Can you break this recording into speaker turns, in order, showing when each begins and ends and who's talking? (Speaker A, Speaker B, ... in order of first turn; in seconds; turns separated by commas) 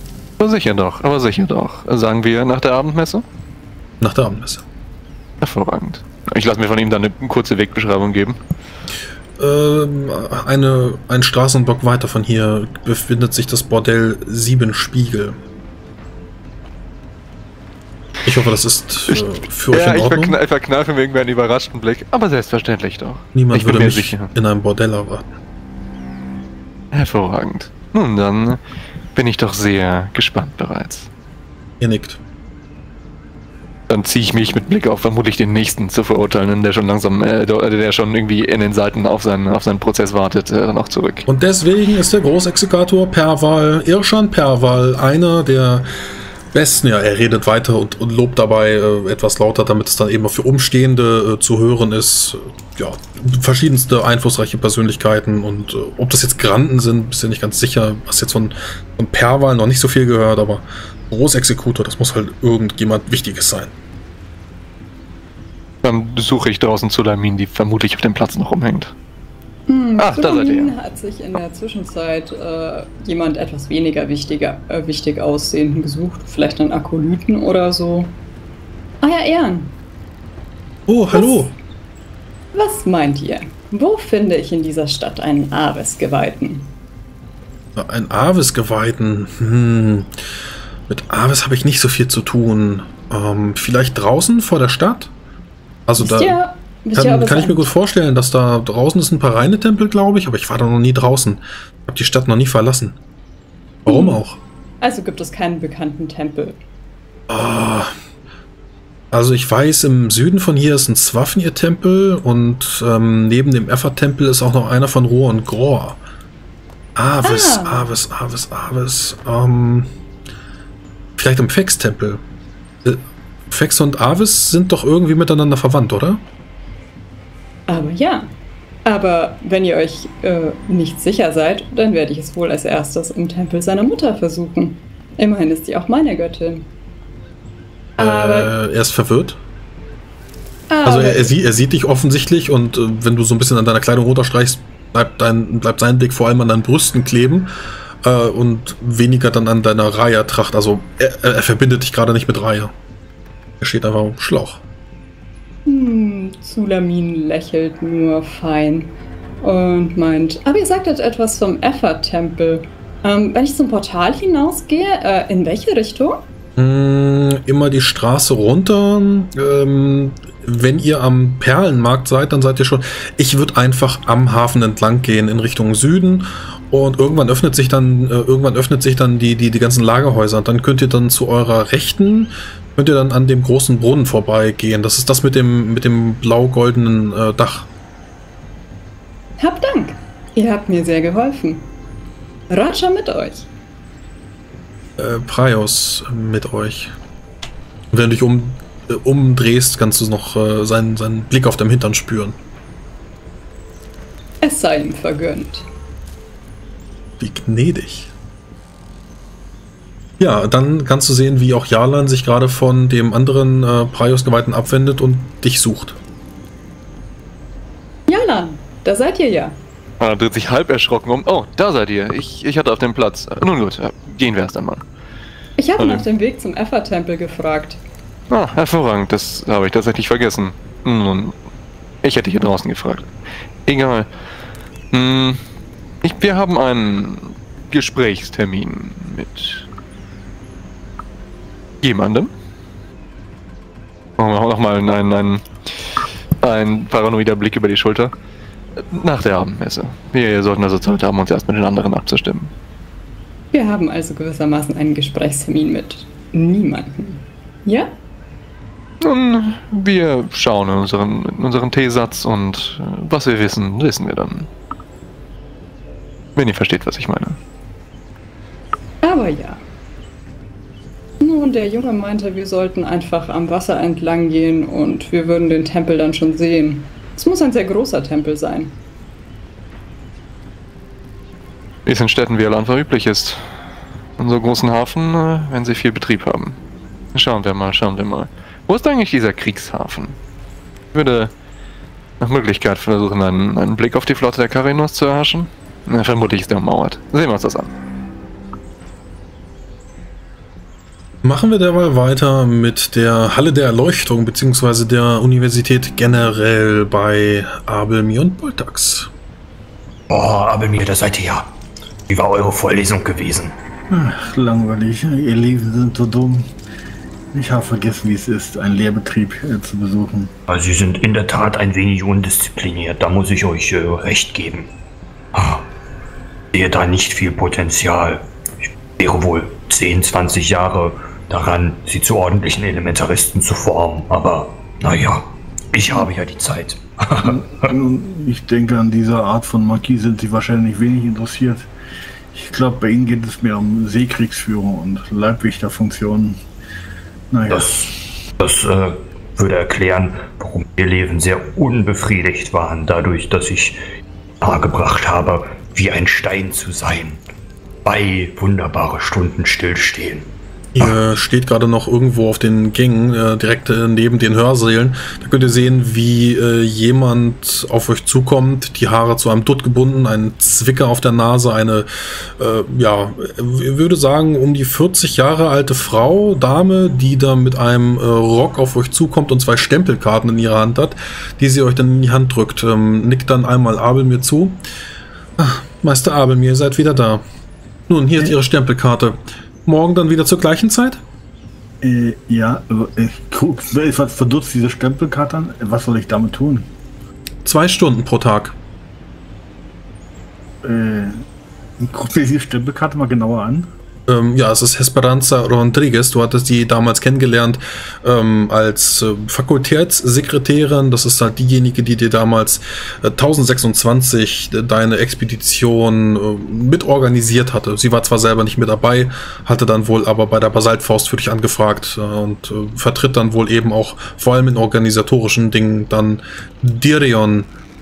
Speaker A: 0.4-3.2, Speaker B: 4.0-4.6, Speaker A: 5.4-8.4, Speaker B: 9.4-15.4, Speaker B: 18.2-20.4, Speaker A: 19.7-24.3, Speaker B: 23.4-25.2, Speaker A: 26.9-28.6, Speaker A: 29.1-31.1, Speaker B: 31.8-32.2, Speaker A: 33.9-41.3, Speaker B: 41.3-45.9, Speaker B: 46.5-63.7, Speaker A: 65.8-68.9, Speaker C: 69.7-78.1, Speaker A: 70.0-70.8, Speaker C: 79.0-79.8, Speaker B: 80.9-81.5, Speaker C: 81.1-81.5, Speaker C: 82.5-86.7, Speaker B: 87.8-90.1, Speaker B: 90.9-95.1, Speaker B: 95.9-96.4, Speaker C: 96.0-97.7, Speaker B: 96.9-103.0, Speaker B: 103.8-104.4, Speaker C: 103.9-104.2, Speaker C: 104.8-106.6, Speaker B: 107.3-107.9, Speaker B: 109.1-116.0, Speaker B: 117.0-119.9, Speaker C: 117.2-117.9, Speaker B: 121.2-122.2, Speaker B: 122.8-126.2, Speaker C: 127.7-128.3, Speaker C: 128.8-136.7, Speaker C: 138.0-138.5, Speaker B: 138.0-139.4, Speaker C: 140.7-141.3, Speaker B: 140.8-147.5, Speaker B: 148.0-152.7, Speaker B: 153.6-154.6, Speaker C: 155.7-166.2, Speaker B: 166.6-187.7, Speaker C: 189.4-191.7, Speaker C: 192.5-193.5, Speaker B: 195.0-196.9, Speaker B: 197.9-202.4, Speaker C: 204.4-205.7, Speaker B: 207.2-208.1, Speaker B: 210.2-216.0, Speaker C: 218.1-219.6, Speaker A: 220.0-224.8, Speaker C: 225.6-227.8, Speaker A: 225.8-226.1, Speaker A: 228.3-231.3, Speaker A: 232.0-233.1, Speaker A: 233.7-234.1, Speaker A: 234.9-235.4, Speaker A: 236.0-239.7, Speaker A: 241.8-242.3, Speaker A: 244.2-245.5, Speaker A: 246.4-248.1, Speaker A: 248.8-252.5, Speaker C: 253.5-257.9, Speaker A: 259.0-264.5, Speaker A: 266.4-267.4, Speaker C: 269.0-269.6, Speaker C: 271.2-278.8, Speaker A: 281.9-283.6, Speaker A: 284.2-286.6, Speaker A: 287.1-290.2, Speaker A: 290.9-291.3, Speaker A: 292.2-297.7, Speaker B: 301.2-309.1, Speaker D: 310.1-311.5, Speaker D: 312.1-313.6, Speaker E: 313.9-316.5, Speaker E: 317.3-320.3, Speaker D: 320.5-324.7, Speaker D: 325.3-325.6, Speaker D: 326.5-328.2, Speaker D: 329.0-337.8, Speaker E: 337.2-341.7, Speaker E: 342.3-346.4, Speaker E: 347.3-347.8, Speaker D: 347.5-353.8, Speaker D: 354.4-357.2, Speaker D: 357.9-360.9, Speaker B: 360.8-384.6, Speaker B: 385.4-387.2, Speaker B: 387.9-391.0, Speaker E: 391.8-396.7, Speaker B: 397.4-398.6, Speaker E: 400.6-401.2, Speaker E: 401.8-403.7, Speaker B: 404.1-427.5